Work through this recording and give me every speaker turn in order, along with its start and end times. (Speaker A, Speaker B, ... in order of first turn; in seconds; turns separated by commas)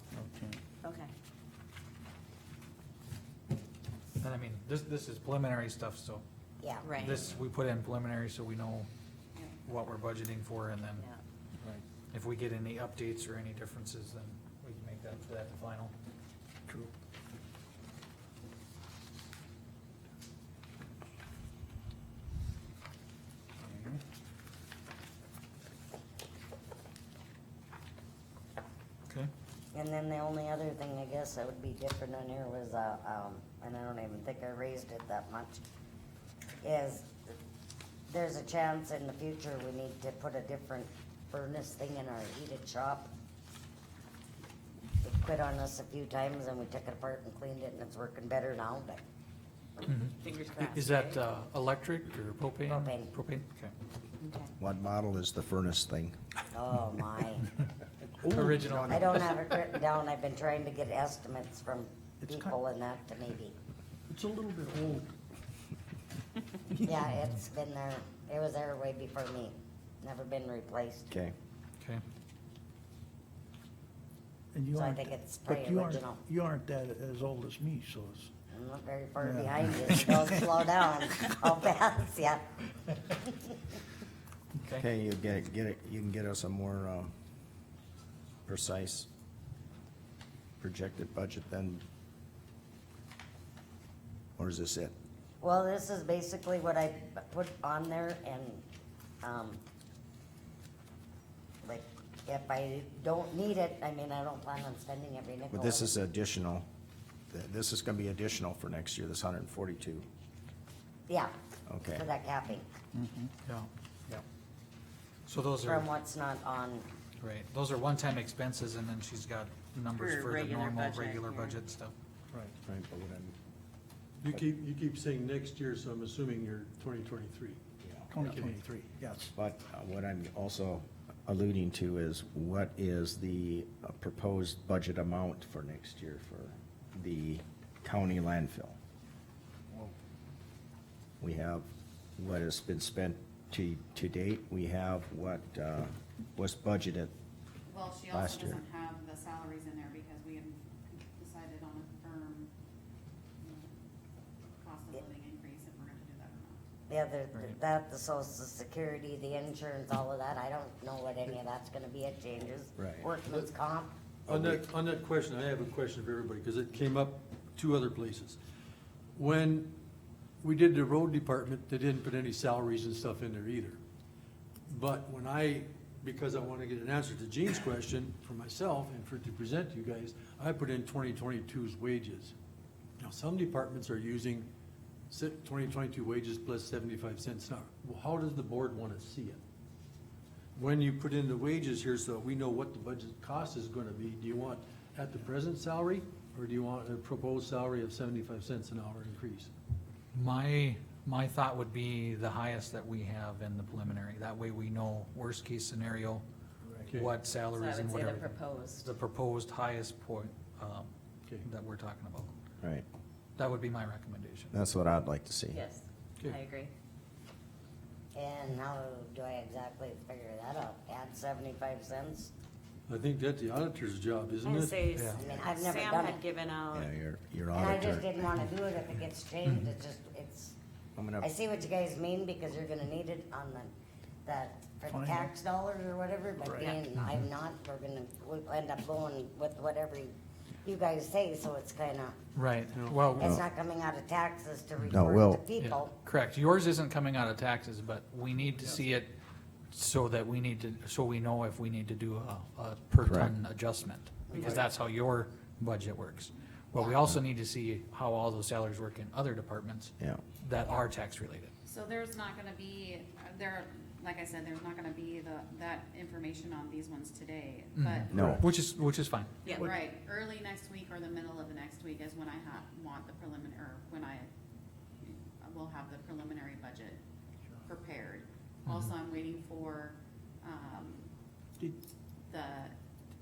Speaker A: 0.1-0.6, Speaker B: 0.8-1.1, Speaker C: 4.2-6.2, Speaker D: 6.6-6.9, Speaker B: 6.8-7.2, Speaker C: 7.0-8.9, Speaker C: 9.7-11.1, Speaker C: 12.1-15.9, Speaker A: 23.6-24.0, Speaker D: 29.7-35.6, Speaker D: 36.6-37.4, Speaker D: 38.1-43.1, Speaker D: 45.0-49.0, Speaker B: 49.8-51.2, Speaker C: 49.9-53.7, Speaker D: 52.7-53.1, Speaker B: 54.2-54.5, Speaker E: 54.6-56.2, Speaker D: 56.5-57.5, Speaker A: 58.2-59.1, Speaker C: 58.2-59.3, Speaker D: 58.9-63.5, Speaker A: 62.2-62.6, Speaker A: 64.1-65.1, Speaker D: 66.8-71.1, Speaker E: 71.1-71.3, Speaker A: 74.5-78.3, Speaker D: 74.8-76.2, Speaker D: 78.5-82.4, Speaker A: 79.2-80.4, Speaker D: 83.1-83.5, Speaker E: 84.7-87.1, Speaker E: 88.5-89.1, Speaker E: 90.6-91.8, Speaker E: 94.4-94.9, Speaker D: 95.4-98.6, Speaker D: 99.2-99.6, Speaker D: 101.6-106.0, Speaker E: 105.5-106.6, Speaker E: 107.3-110.0, Speaker E: 111.7-112.0, Speaker D: 111.9-112.7, Speaker A: 113.0-113.3, Speaker C: 113.4-114.2, Speaker C: 115.3-115.9, Speaker D: 115.6-116.9, Speaker C: 117.2-121.9, Speaker B: 119.9-121.6, Speaker E: 122.7-123.3, Speaker F: 124.2-127.6, Speaker E: 127.8-128.1, Speaker A: 128.1-129.3, Speaker F: 128.2-128.6, Speaker E: 129.3-138.8, Speaker E: 141.2-147.1, Speaker G: 147.7-152.5, Speaker E: 148.1-148.6, Speaker G: 153.4-153.8, Speaker G: 154.6-156.6, Speaker D: 156.9-163.9, Speaker E: 162.8-163.1, Speaker E: 164.3-164.6, Speaker F: 164.3-168.4, Speaker F: 169.2-169.7, Speaker F: 170.4-173.8, Speaker F: 174.7-182.3, Speaker F: 183.0-184.5, Speaker F: 185.1-189.4, Speaker F: 190.6-199.5, Speaker C: 200.1-206.2, Speaker F: 206.9-207.1, Speaker C: 206.9-210.9, Speaker B: 207.5-208.9, Speaker C: 211.4-212.3, Speaker E: 212.6-212.8, Speaker C: 213.4-214.6, Speaker E: 214.5-215.6, Speaker B: 215.5-216.7, Speaker D: 218.1-222.3, Speaker F: 222.9-224.9, Speaker B: 224.4-226.9, Speaker C: 224.9-225.2, Speaker D: 225.1-226.2, Speaker E: 226.7-228.1, Speaker D: 227.5-230.6, Speaker E: 230.9-231.3, Speaker D: 231.2-233.7, Speaker D: 234.2-240.1, Speaker A: 234.9-235.3, Speaker A: 236.4-236.8, Speaker D: 240.6-242.2, Speaker C: 242.3-243.3, Speaker F: 242.7-243.2, Speaker D: 243.2-245.9, Speaker E: 244.9-245.4, Speaker C: 245.6-249.1, Speaker C: 249.7-261.5, Speaker E: 253.0-253.3, Speaker G: 261.6-268.3, Speaker C: 267.8-269.4, Speaker E: 268.1-268.4, Speaker G: 269.4-274.3, Speaker G: 275.0-277.0, Speaker G: 277.6-281.1, Speaker C: 278.7-278.9, Speaker G: 282.3-282.8